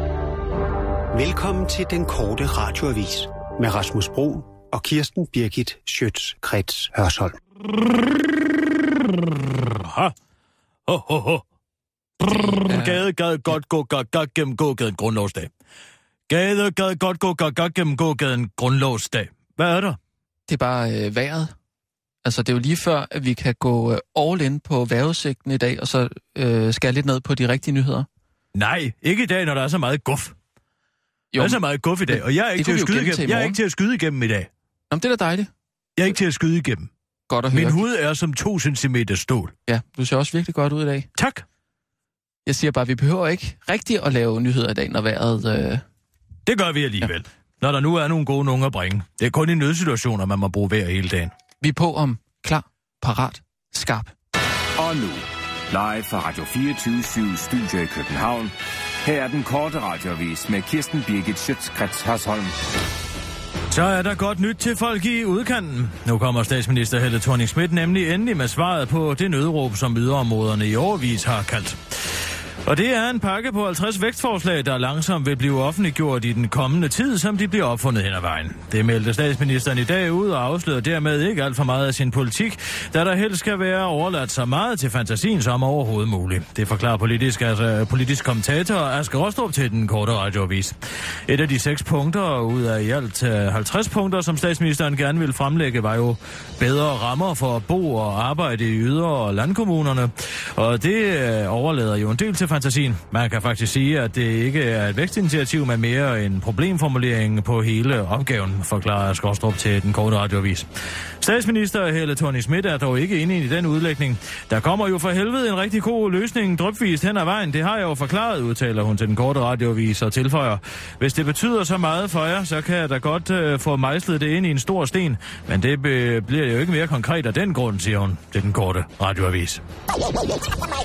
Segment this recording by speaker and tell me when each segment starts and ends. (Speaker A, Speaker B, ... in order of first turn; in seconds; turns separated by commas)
Speaker A: 1.1-7.4, Speaker B: 9.1-10.2, Speaker B: 10.9-11.4, Speaker B: 12.2-15.5, Speaker C: 12.5-13.0, Speaker B: 16.3-20.0, Speaker C: 20.5-21.5, Speaker C: 22.2-28.1, Speaker B: 28.5-30.4, Speaker C: 31.3-33.6, Speaker B: 31.4-34.5, Speaker C: 34.9-35.5, Speaker B: 36.0-36.9, Speaker C: 37.3-37.9, Speaker B: 37.5-39.5, Speaker C: 39.7-41.1, Speaker B: 41.2-41.5, Speaker C: 42.5-45.8, Speaker B: 46.5-51.3, Speaker C: 51.6-54.1, Speaker D: 54.8-62.5, Speaker B: 63.7-71.8, Speaker B: 72.7-90.8, Speaker B: 91.3-110.7, Speaker B: 111.2-129.6